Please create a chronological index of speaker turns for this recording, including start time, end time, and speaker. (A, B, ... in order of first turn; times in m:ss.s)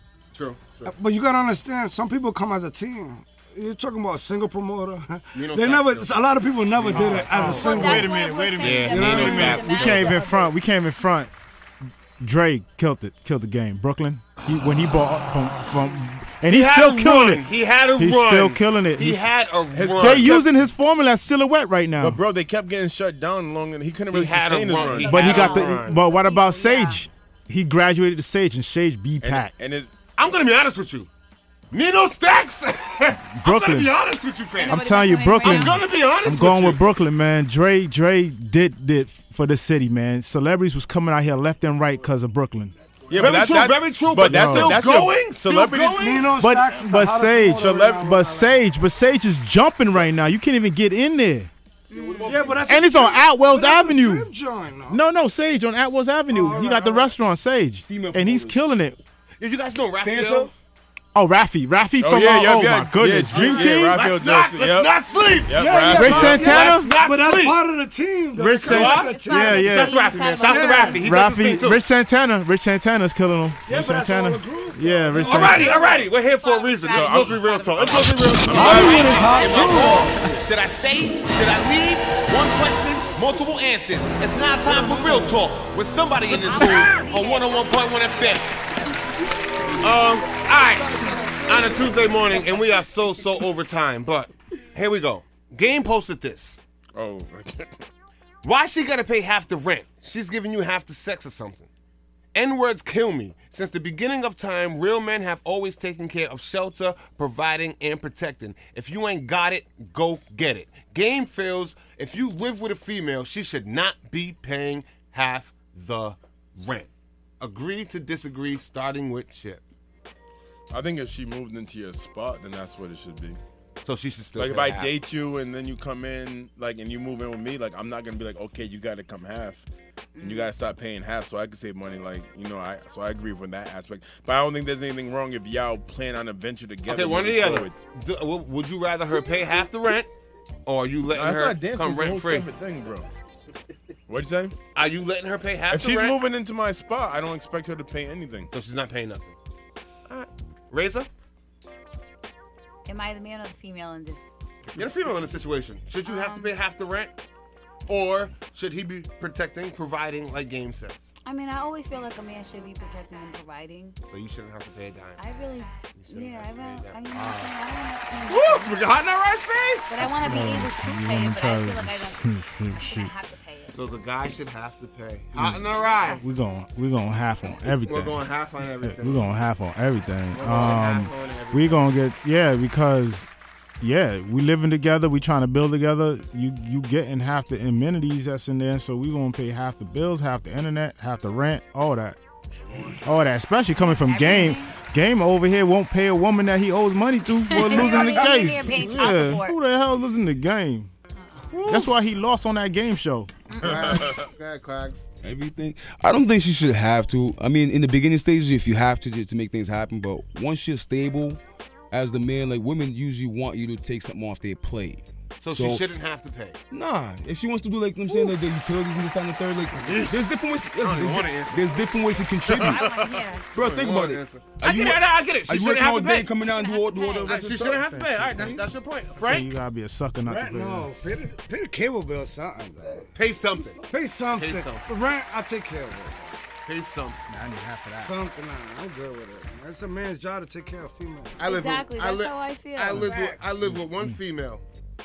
0:00.3-0:00.9 A
0:00.9-0:08.1 B
0:05.3-0:10.1 A
0:06.9-0:11.3 C
0:07.4-0:10.5 D
0:08.9-0:09.8 B
0:12.2-0:17.5 C
0:16.5-0:20.5 A
0:18.0-0:19.3 C
0:19.7-0:20.5 E
0:19.8-0:22.2 C
0:22.0-0:25.7 E
0:24.1-0:26.0 A
0:24.8-0:27.0 D
0:25.0-0:29.5 C
0:29.2-0:30.0 E
0:30.2-0:31.1 A
0:31.7-0:36.8 A
0:33.4-0:33.9 C
0:34.6-0:35.8 D
0:34.7-0:43.4 C
0:43.1-0:46.2 E
0:43.1-0:46.2 A
0:44.1-0:44.8 C
0:45.8-0:48.6 B
0:46.4-0:51.5 C
0:47.5-0:48.1 E
0:51.9-0:52.5 D
0:51.9-0:52.6 F
0:52.2-0:55.0 B
0:52.6-0:54.3 C
0:54.9-0:59.0 C
0:56.3-0:57.1 B
0:56.4-0:57.1 F
0:57.9-0:58.6 F
0:59.4-1:00.5 A
1:00.0-1:00.5 F
1:01.2-1:04.0 C
1:02.0-1:06.6 E
1:03.4-1:07.6 A
1:05.5-1:09.8 B
1:05.9-1:06.9 C
1:08.4-1:10.0 C
1:08.7-1:11.8 A
1:08.7-1:11.0 D
1:10.4-1:11.0 B
1:10.7-1:15.7 C
1:13.7-1:15.8 B
1:15.2-1:28.6 A
1:15.4-1:20.2 D
1:16.9-1:19.4 E
1:18.5-1:20.2 B
1:24.7-1:25.4 B
1:26.3-1:28.4 D
1:29.8-1:36.6 A
1:37.0-1:37.7 E
1:38.4-1:41.7 A
1:42.3-1:59.6 A
2:00.7-2:03.4 E
2:03.8-2:04.9 A
2:04.4-2:09.7 E
2:10.2-2:10.5 D
2:10.2-2:17.8 E
2:16.9-2:20.1 A
2:20.7-2:22.5 A
2:21.1-2:23.1 E
2:24.1-2:24.6 E
2:24.7-2:26.2 A
2:25.7-2:28.5 E
2:28.5-2:29.4 A
2:30.1-2:31.1 A
2:32.9-2:34.3 D
2:34.7-2:37.1 A
2:36.0-2:36.5 D
2:37.9-2:41.1 A
2:41.2-2:44.0 D
2:44.1-2:45.2 A
2:45.2-2:48.8 D
2:46.0-2:47.5 A
2:48.3-2:50.1 A
2:49.9-2:53.8 D
2:50.2-2:53.1 C
2:53.7-2:56.4 A
2:55.3-2:58.2 C
2:55.8-2:56.3 D
2:57.8-2:59.3 A
2:58.8-3:03.3 C
3:00.3-3:01.8 A
3:03.8-3:12.2 C
3:12.7-3:13.0 A
3:13.0-3:20.9 C
3:14.0-3:14.7 D
3:17.5-3:19.6 D
3:17.7-3:18.4 A
3:21.2-3:21.6 D
3:21.5-3:22.0 A
3:21.7-3:23.3 C
3:23.5-3:25.1 A
3:23.6-3:24.0 D
3:23.6-3:24.3 E
3:25.2-3:31.4 F
3:31.9-3:35.8 F
3:35.4-3:36.6 A
3:36.7-3:42.9 F
3:38.1-3:38.4 A
3:39.8-3:46.3 A
3:42.5-3:43.5 D
3:43.5-3:48.6 F
3:46.3-3:47.4 D
3:47.3-3:49.5 A
3:47.7-3:48.6 C
3:49.2-3:50.9 C
3:50.3-3:53.1 B
3:53.2-3:53.8 A
3:53.9-3:56.4 B
3:54.4-3:54.8 A
3:56.6-3:57.2 A
3:57.3-3:58.2 C
3:58.0-4:01.5 B
4:01.4-4:04.6 A
4:01.4-4:03.1 D
4:03.0-4:03.6 B
4:03.6-4:04.2 C